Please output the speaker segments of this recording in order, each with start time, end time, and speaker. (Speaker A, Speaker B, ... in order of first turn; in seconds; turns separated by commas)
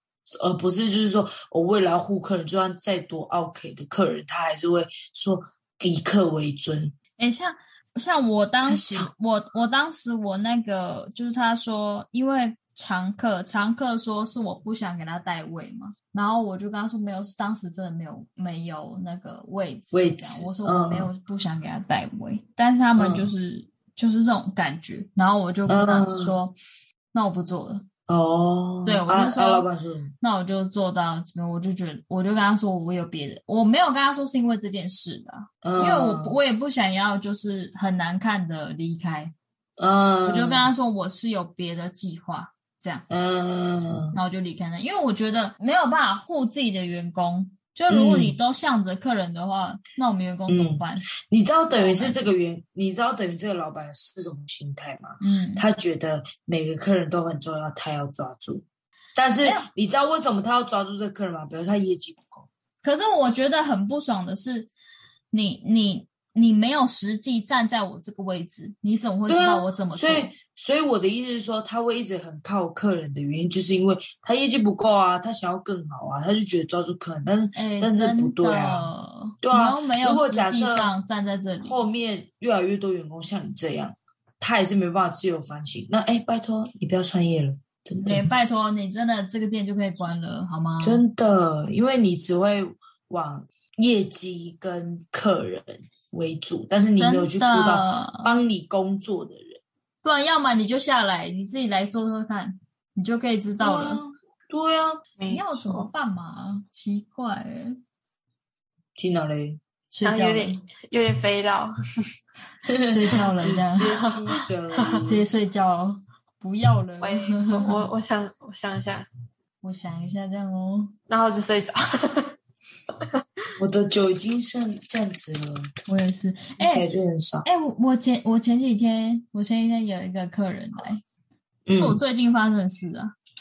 Speaker A: 0.3-6.9, Speaker B: 7.2-26.6, Speaker A: 8.6-9.1, Speaker A: 19.9-21.1, Speaker A: 23.0-23.3, Speaker A: 25.7-26.4, Speaker B: 27.1-27.9, Speaker A: 28.1-30.1, Speaker B: 28.9-29.7, Speaker B: 30.2-39.3, Speaker A: 35.6-36.4, Speaker A: 39.8-40.7, Speaker B: 40.2-43.0, Speaker A: 43.1-44.2, Speaker B: 44.1-51.0, Speaker A: 47.9-48.4, Speaker A: 50.5-58.6, Speaker B: 51.7-52.2, Speaker B: 55.2-55.6, Speaker A: 59.1-62.5, Speaker B: 59.4-59.7, Speaker B: 62.8-64.7, Speaker B: 65.3-70.3, Speaker A: 69.3-78.9, Speaker B: 77.5-81.8, Speaker A: 79.4-80.9, Speaker A: 81.6-88.3, Speaker B: 88.0-91.0, Speaker A: 90.8-99.6, Speaker B: 97.0-98.3, Speaker B: 100.0-104.0, Speaker A: 103.6-105.0, Speaker C: 105.2-105.9, Speaker B: 105.3-107.8, Speaker A: 109.0-109.6, Speaker B: 109.9-110.6, Speaker C: 110.0-111.7, Speaker A: 112.7-115.2, Speaker B: 112.8-114.1, Speaker B: 115.0-117.9, Speaker C: 117.0-119.1, Speaker B: 119.6-120.9, Speaker C: 121.1-122.3, Speaker A: 123.6-125.7, Speaker B: 125.9-126.8, Speaker A: 126.6-127.5, Speaker B: 127.4-131.0, Speaker A: 131.7-132.0, Speaker B: 131.7-133.1